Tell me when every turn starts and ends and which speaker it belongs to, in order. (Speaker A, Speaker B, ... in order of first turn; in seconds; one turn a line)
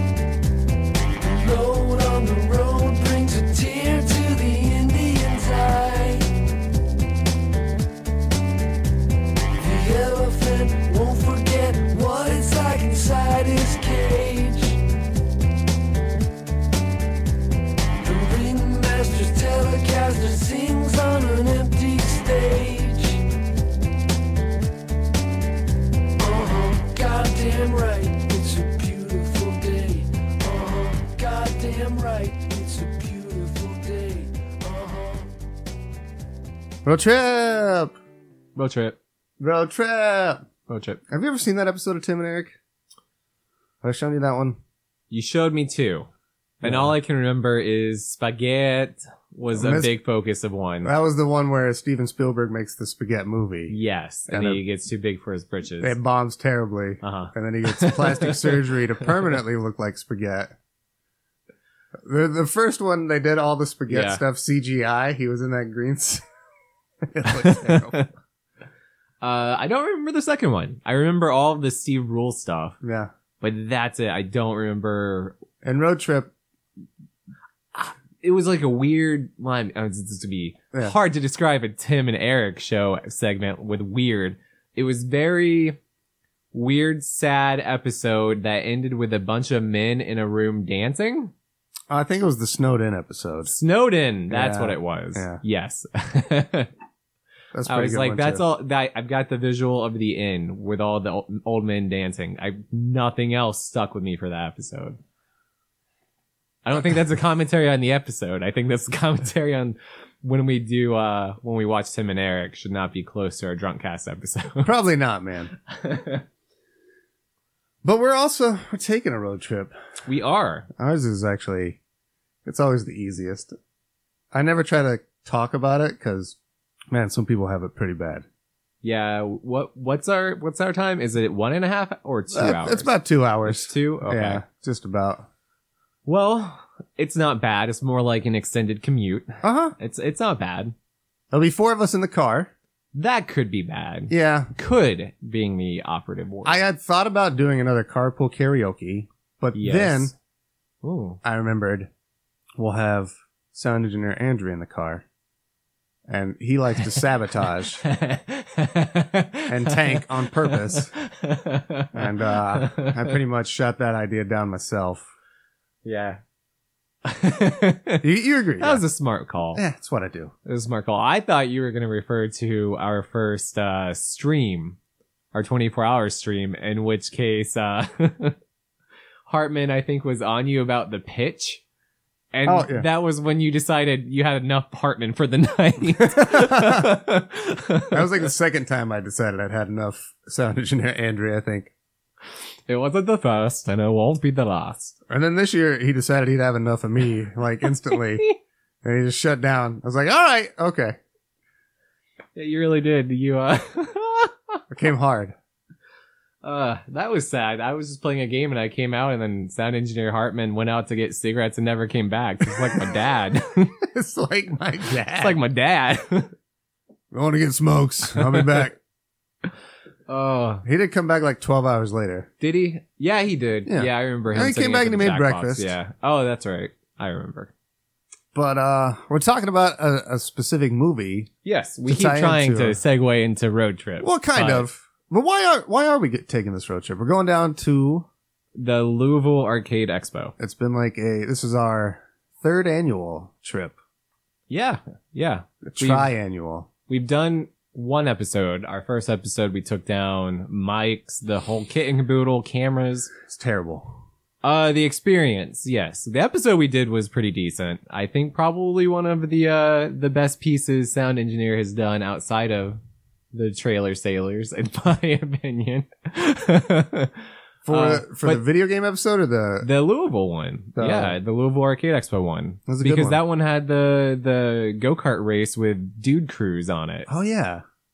Speaker A: 1.2-6.3
Speaker A: 9.5-14.8
Speaker A: 18.0-23.2
Speaker A: 26.2-35.3
Speaker B: 36.8-37.9
Speaker C: 38.5-39.0
Speaker B: 39.4-40.4
Speaker C: 40.7-41.0
Speaker B: 41.1-42.6
Speaker B: 43.8-44.6
Speaker C: 45.1-46.1
Speaker B: 46.6-46.9
Speaker C: 46.6-50.9
Speaker B: 49.5-49.9
Speaker B: 50.8-53.8
Speaker C: 53.7-55.9
Speaker B: 54.3-54.6
Speaker B: 55.8-60.5
Speaker C: 57.0-58.5
Speaker B: 62.0-66.2
Speaker C: 63.9-64.2
Speaker B: 67.0-68.0
Speaker C: 67.3-68.1
Speaker C: 69.2-72.8
Speaker B: 72.8-73.1
Speaker C: 73.4-75.3
Speaker B: 75.6-76.3
Speaker C: 77.7-85.8
Speaker C: 86.5-91.3
Speaker B: 91.9-93.5
Speaker C: 93.5-96.7
Speaker B: 94.3-95.4
Speaker B: 97.5-98.4
Speaker C: 97.7-105.0
Speaker C: 106.6-114.7
Speaker B: 114.6-115.5
Speaker C: 115.7-116.2
Speaker B: 117.8-119.7
Speaker C: 120.0-120.7
Speaker B: 120.8-121.8
Speaker B: 122.4-123.5
Speaker B: 124.3-126.3
Speaker B: 126.9-128.2
Speaker C: 128.8-132.9
Speaker B: 132.3-135.2
Speaker C: 133.4-134.4
Speaker C: 136.1-140.7
Speaker B: 139.4-139.7
Speaker B: 141.3-142.5
Speaker C: 142.9-146.6
Speaker B: 144.1-144.5
Speaker B: 146.4-150.1
Speaker C: 149.5-150.1
Speaker C: 150.8-151.2
Speaker B: 151.2-151.9
Speaker B: 152.6-155.0
Speaker B: 156.1-157.8
Speaker C: 157.8-163.1
Speaker B: 159.5-160.9
Speaker B: 161.9-165.0
Speaker C: 165.8-166.2
Speaker C: 167.0-168.0
Speaker B: 168.0-168.8
Speaker C: 168.6-169.6
Speaker B: 169.5-170.3
Speaker C: 170.4-174.8
Speaker C: 175.3-178.3
Speaker C: 179.3-181.6
Speaker C: 182.3-188.1
Speaker B: 182.4-182.9
Speaker B: 186.2-186.9
Speaker B: 187.9-191.7
Speaker C: 192.7-194.9
Speaker B: 195.1-198.2
Speaker B: 198.8-201.0
Speaker C: 202.3-204.6
Speaker B: 204.7-205.3
Speaker C: 206.4-213.7
Speaker B: 212.5-212.9
Speaker B: 213.8-215.4
Speaker C: 215.2-216.3
Speaker B: 217.1-218.8
Speaker C: 218.1-218.5
Speaker C: 220.1-220.6
Speaker B: 220.6-222.3
Speaker C: 222.4-227.5
Speaker B: 223.7-225.7
Speaker B: 228.3-231.3
Speaker C: 231.4-234.7
Speaker B: 231.8-232.8
Speaker B: 234.0-238.1
Speaker C: 238.6-240.3
Speaker B: 240.4-243.8
Speaker C: 244.5-246.1
Speaker B: 245.6-246.7
Speaker C: 246.9-253.1
Speaker B: 253.2-254.0
Speaker C: 254.4-262.8
Speaker C: 263.3-267.1
Speaker B: 267.6-269.7
Speaker C: 267.7-268.4
Speaker C: 269.6-277.1
Speaker B: 270.8-271.1
Speaker B: 272.7-273.2
Speaker B: 277.1-277.6